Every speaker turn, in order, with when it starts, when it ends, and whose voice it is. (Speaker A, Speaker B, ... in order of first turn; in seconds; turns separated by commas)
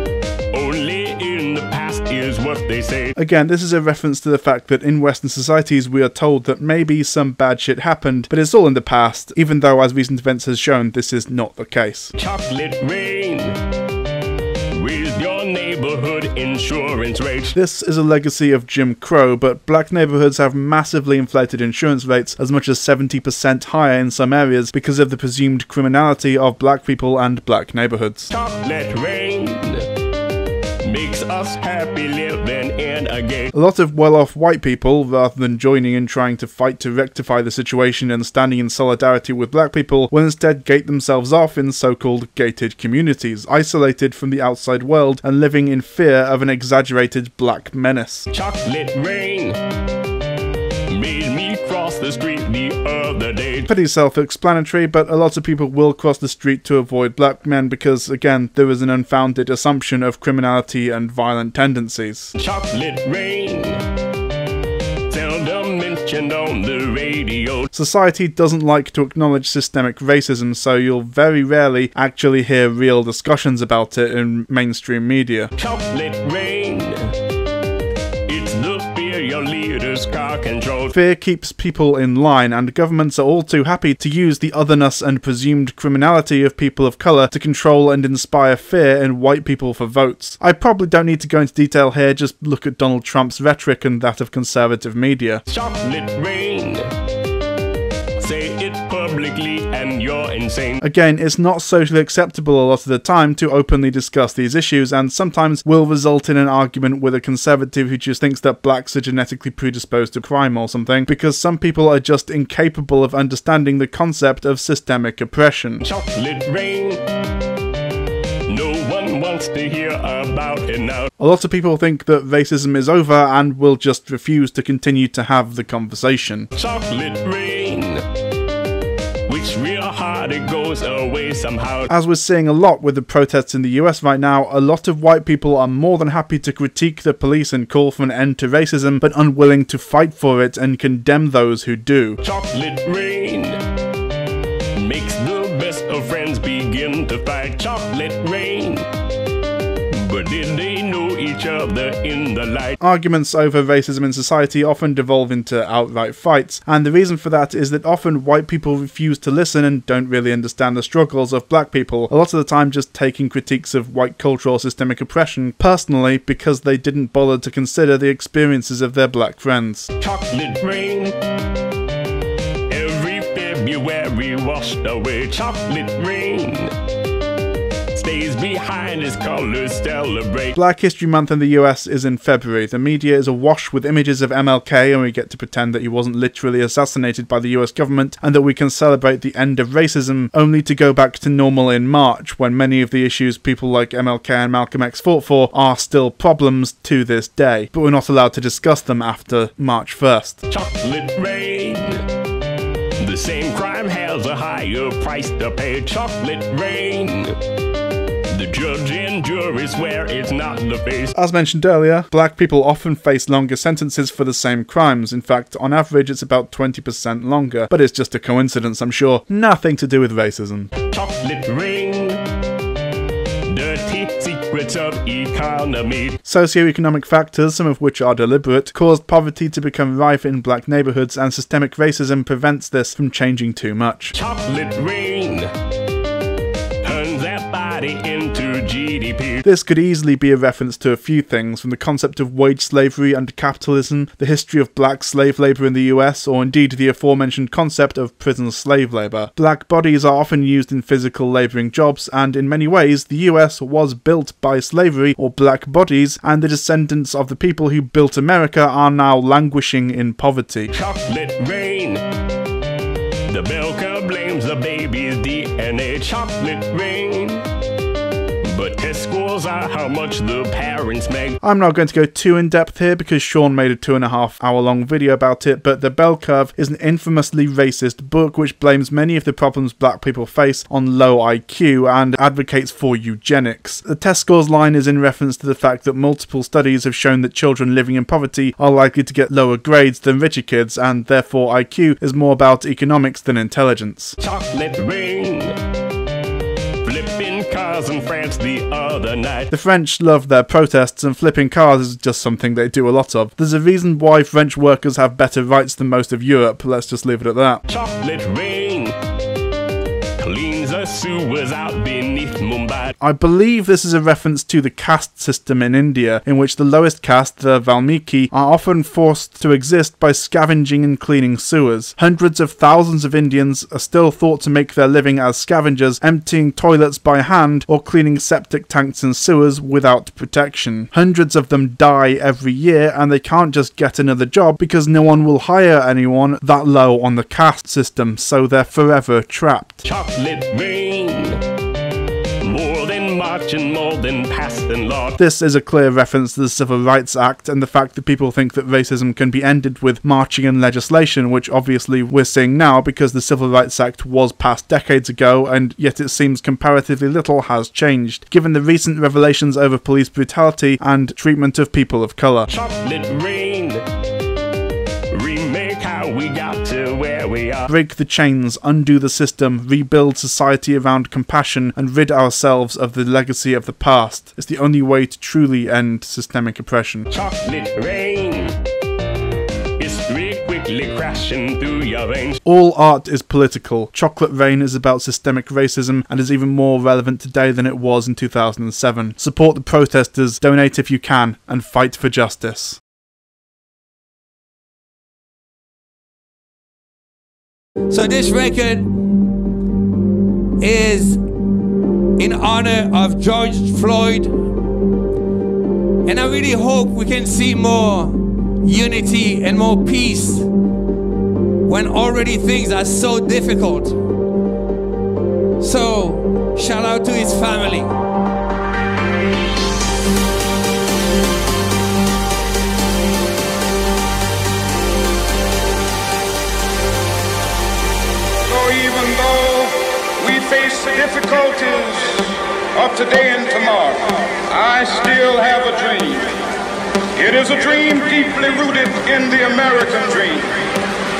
Speaker A: 0.5-3.1, Speaker B: 3.2-12.1, Speaker A: 12.2-13.6, Speaker A: 14.7-17.6, Speaker B: 17.5-28.3, Speaker A: 28.3-29.9, Speaker A: 30.8-33.5, Speaker B: 33.5-48.3, Speaker A: 48.3-49.6, Speaker A: 50.9-53.7, Speaker B: 53.7-62.3, Speaker A: 62.4-63.8, Speaker A: 65.1-67.7, Speaker B: 67.7-75.5, Speaker A: 75.6-77.1, Speaker A: 78.3-81.0, Speaker B: 80.9-95.4, Speaker A: 95.5-96.9, Speaker A: 98.2-100.8, Speaker B: 100.8-115.9, Speaker A: 115.8-117.0, Speaker A: 118.5-121.1, Speaker B: 121.2-126.5, Speaker A: 126.5-128.0, Speaker A: 129.3-131.9, Speaker B: 131.9-142.2, Speaker A: 142.2-143.6, Speaker A: 144.8-148.9, Speaker A: 149.9-152.8, Speaker B: 152.8-169.9, Speaker A: 170.0-171.2, Speaker A: 172.7-176.7, Speaker A: 177.9-180.6, Speaker B: 180.6-200.4, Speaker A: 200.5-202.0, Speaker A: 203.0-207.4, Speaker A: 208.3-211.1, Speaker B: 211.2-220.7, Speaker A: 220.9-222.2, Speaker A: 223.5-226.2, Speaker B: 226.2-234.2, Speaker A: 234.1-235.5, Speaker A: 236.8-239.4, Speaker B: 239.4-260.7, Speaker A: 260.7-262.0, Speaker A: 263.3-267.5, Speaker A: 268.4-271.4, Speaker B: 271.4-294.2, Speaker A: 294.2-295.6, Speaker A: 296.8-299.5, Speaker B: 299.5-307.6, Speaker A: 307.7-308.9, Speaker A: 310.2-312.9, Speaker B: 313.0-339.9, Speaker A: 339.8-341.4, Speaker A: 342.4-345.2, Speaker B: 345.2-362.5, Speaker A: 362.5-363.8, Speaker A: 365.1-367.7, Speaker B: 367.7-377.1, Speaker A: 377.1-378.6, Speaker A: 379.8-382.4, Speaker B: 382.4-392.8, Speaker C: 397.9-398.9, Speaker C: 400.6-401.2, Speaker C: 402.2-404.4, Speaker C: 406.1-410.5, Speaker C: 411.6-414.0, Speaker C: 415.6-417.9, Speaker D: 428.5-436.3, Speaker D: 437.2-440.5